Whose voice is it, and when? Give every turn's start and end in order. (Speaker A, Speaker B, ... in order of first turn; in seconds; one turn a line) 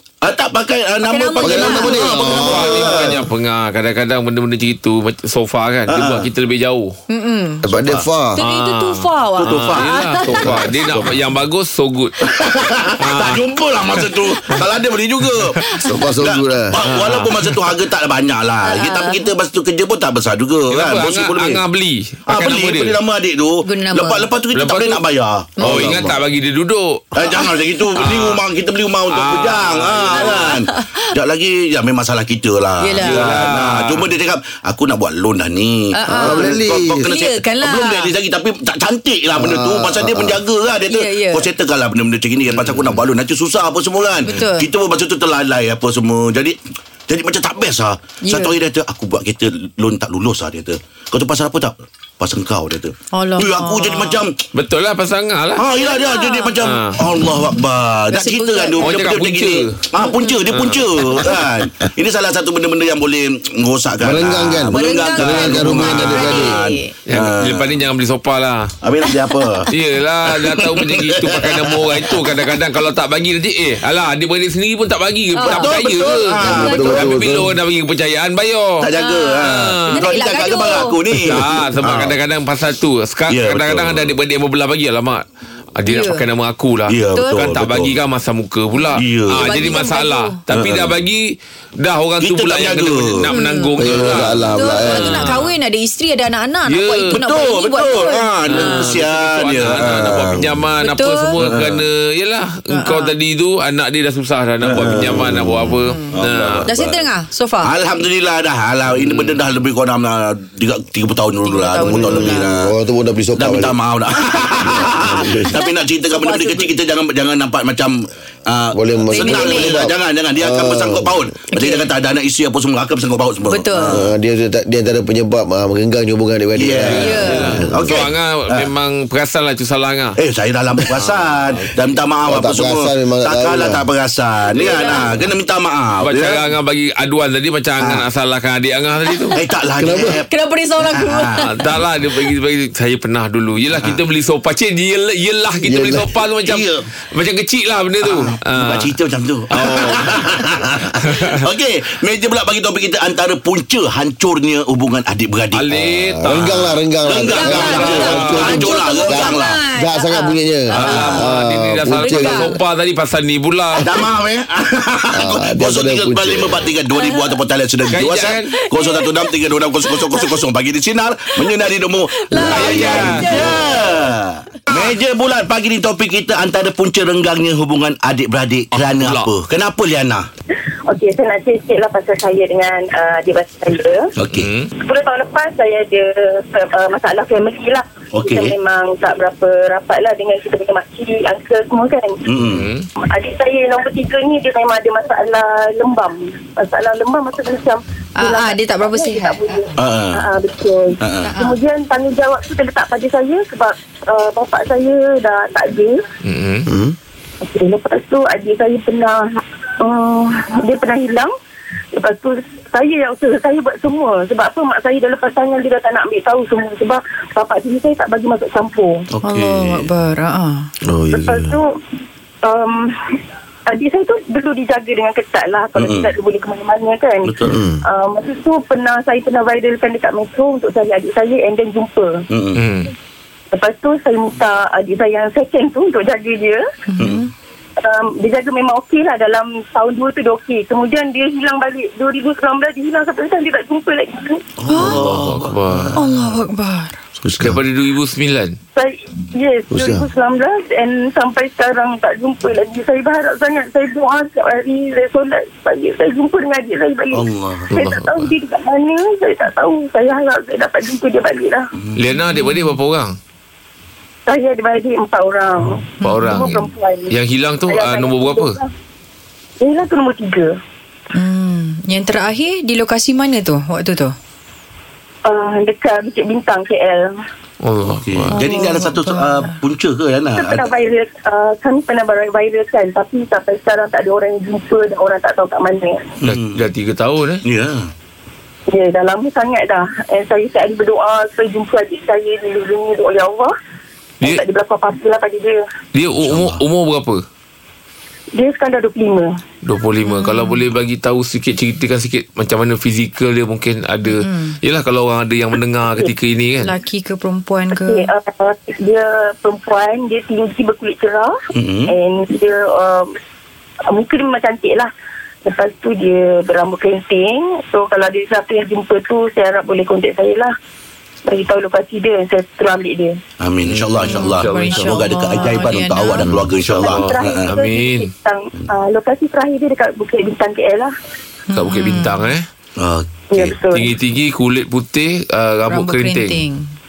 Speaker A: 0.2-3.2
Speaker B: 1.0-2.6
Speaker C: 1.4-3.2
Speaker D: 2.3-7.0
Speaker A: 5.9-6.3
Speaker B: 7.1-7.7
Speaker C: 7.6-8.4
Speaker A: 7.7-8.1
Speaker B: 8.4-10.7
Speaker D: 8.4-12.2
Speaker A: 9.4-11.2
Speaker A: 12.2-15.6
Speaker D: 13.0-14.1
Speaker B: 15.6-15.9
Speaker C: 15.8-16.8
Speaker A: 16.2-21.6
Speaker D: 16.9-17.7
Speaker B: 18.6-19.3
Speaker D: 20.7-23.0
Speaker A: 22.3-26.1
Speaker B: 23.6-24.4
Speaker D: 24.5-25.0
Speaker B: 25.6-26.1
Speaker C: 25.6-26.2
Speaker D: 25.6-27.2
Speaker A: 27.1-54.4
Speaker B: 27.3-28.0
Speaker D: 27.9-28.4
Speaker D: 29.1-30.5
Speaker B: 30.2-31.0
Speaker B: 32.8-33.5
Speaker D: 33.0-34.1
Speaker B: 35.9-38.2
Speaker C: 36.1-37.1
Speaker C: 39.4-40.4
Speaker B: 40.8-41.5
Speaker D: 42.5-43.0
Speaker B: 44.2-44.7
Speaker B: 48.2-48.6
Speaker B: 53.1-54.2
Speaker D: 54.5-55.7
Speaker A: 55.6-67.9
Speaker B: 55.7-56.6
Speaker D: 56.6-57.0
Speaker B: 58.1-59.1
Speaker D: 58.8-59.8
Speaker B: 60.0-60.5
Speaker D: 60.5-60.8
Speaker B: 61.0-61.4
Speaker C: 64.0-66.6
Speaker B: 64.7-67.0
Speaker D: 67.1-68.7
Speaker A: 68.8-69.7
Speaker B: 69.0-69.4
Speaker D: 69.7-78.9
Speaker A: 70.3-72.3
Speaker B: 75.3-77.2
Speaker A: 75.4-77.3
Speaker C: 76.4-77.6
Speaker A: 78.8-82.2
Speaker B: 79.0-81.2
Speaker D: 79.4-80.1
Speaker D: 81.1-85.2
Speaker A: 83.3-84.2
Speaker D: 85.8-95.5
Speaker B: 85.8-86.3
Speaker A: 86.9-88.0
Speaker B: 87.1-87.5
Speaker B: 88.8-90.4
Speaker A: 89.0-89.9
Speaker A: 90.5-91.0
Speaker A: 92.2-93.3
Speaker B: 93.3-99.0
Speaker C: 93.8-95.3
Speaker A: 93.9-94.3
Speaker D: 96.7-97.3
Speaker A: 97.1-100.5
Speaker D: 98.5-106.8
Speaker C: 99.8-100.6
Speaker B: 100.8-101.4
Speaker A: 101.4-101.8
Speaker B: 102.7-103.2
Speaker A: 104.6-105.3
Speaker C: 105.0-105.7
Speaker B: 105.7-107.7
Speaker A: 106.1-107.1
Speaker A: 107.6-112.7
Speaker D: 108.9-109.4
Speaker B: 111.4-112.5
Speaker C: 111.8-113.7
Speaker A: 113.4-124.1
Speaker C: 114.6-115.5
Speaker B: 115.5-116.7
Speaker C: 118.7-121.2
Speaker B: 119.1-119.8
Speaker B: 121.5-121.9
Speaker B: 123.4-124.0
Speaker C: 123.8-128.0
Speaker A: 126.6-128.7
Speaker D: 126.8-130.2
Speaker B: 126.9-127.6
Speaker A: 130.2-136.5
Speaker D: 131.0-131.8
Speaker C: 132.3-133.8
Speaker B: 134.6-135.2
Speaker D: 134.6-134.9
Speaker D: 136.0-139.4
Speaker A: 139.3-141.5
Speaker C: 139.8-140.2
Speaker B: 140.3-141.8
Speaker D: 141.4-148.9
Speaker C: 145.6-146.1
Speaker A: 146.4-146.9
Speaker A: 148.0-155.7
Speaker D: 149.5-150.1
Speaker C: 149.6-150.0
Speaker D: 151.0-151.3
Speaker D: 155.5-156.8
Speaker C: 155.7-162.6
Speaker A: 157.1-159.6
Speaker B: 157.3-161.3
Speaker D: 157.4-158.6
Speaker D: 160.7-163.9
Speaker B: 162.0-162.5
Speaker A: 163.8-180.3
Speaker C: 165.1-166.7
Speaker B: 166.9-167.4
Speaker D: 167.9-168.5
Speaker B: 168.5-170.5
Speaker B: 171.4-174.1
Speaker D: 172.4-173.4
Speaker D: 178.9-179.3
Speaker E: 180.9-184.1
Speaker A: 184.2-184.5
Speaker D: 184.3-184.7
Speaker E: 184.8-192.2
Speaker A: 188.1-188.6
Speaker A: 192.3-192.7
Speaker D: 192.4-192.9
Speaker E: 193.1-206.0
Speaker B: 198.2-199.7
Speaker A: 199.8-200.3
Speaker A: 201.0-201.4
Speaker B: 201.2-201.6
Speaker D: 206.2-206.7
Speaker C: 206.7-207.0
Speaker E: 207.5-209.2
Speaker E: 209.8-211.3
Speaker E: 211.9-219.1
Speaker A: 219.1-219.9
Speaker B: 219.2-220.7
Speaker C: 220.8-221.6
Speaker E: 221.2-221.7
Speaker E: 222.4-223.1
Speaker E: 223.7-227.3
Speaker A: 225.8-226.1
Speaker A: 227.2-227.6
Speaker C: 227.4-227.8
Speaker E: 227.8-232.2
Speaker A: 232.3-232.6
Speaker D: 232.6-232.9
Speaker E: 233.5-236.7
Speaker B: 236.9-237.3
Speaker A: 237.0-237.2
Speaker E: 237.8-244.5
Speaker A: 244.6-246.0
Speaker B: 244.7-245.1
Speaker D: 244.9-246.0
Speaker B: 245.9-247.0
Speaker C: 247.2-247.6
Speaker D: 247.4-248.6
Speaker E: 248.8-261.6
Speaker C: 249.7-250.1
Speaker A: 257.1-257.7
Speaker D: 257.7-258.3
Speaker D: 262.0-263.2
Speaker B: 262.3-262.7
Speaker E: 264.3-267.2
Speaker B: 266.0-266.6
Speaker D: 266.0-266.6
Speaker D: 267.1-268.6
Speaker E: 267.7-268.7
Speaker E: 269.6-270.6
Speaker B: 271.1-274.2
Speaker E: 275.2-277.1
Speaker D: 277.6-278.4
Speaker A: 277.9-280.7
Speaker B: 278.3-279.6
Speaker E: 280.3-286.1
Speaker A: 286.2-286.6
Speaker D: 286.3-287.4
Speaker A: 287.4-287.9
Speaker E: 288.7-293.5
Speaker E: 294.2-295.6
Speaker D: 295.9-297.2
Speaker A: 296.2-296.6
Speaker E: 298.3-299.3
Speaker D: 299.6-306.7
Speaker B: 300.0-300.6
Speaker B: 304.0-304.6
Speaker B: 306.6-308.1
Speaker E: 307.7-313.1
Speaker A: 311.5-311.9
Speaker E: 313.9-314.9
Speaker E: 315.4-320.5
Speaker E: 321.2-323.2
Speaker A: 323.4-327.5
Speaker D: 323.9-325.1
Speaker B: 324.0-326.5
Speaker E: 326.7-330.9
Speaker D: 326.8-328.1
Speaker B: 331.5-332.4
Speaker D: 331.5-332.5
Speaker A: 332.8-333.6
Speaker E: 333.3-333.9
Speaker D: 333.7-336.4
Speaker B: 335.7-336.7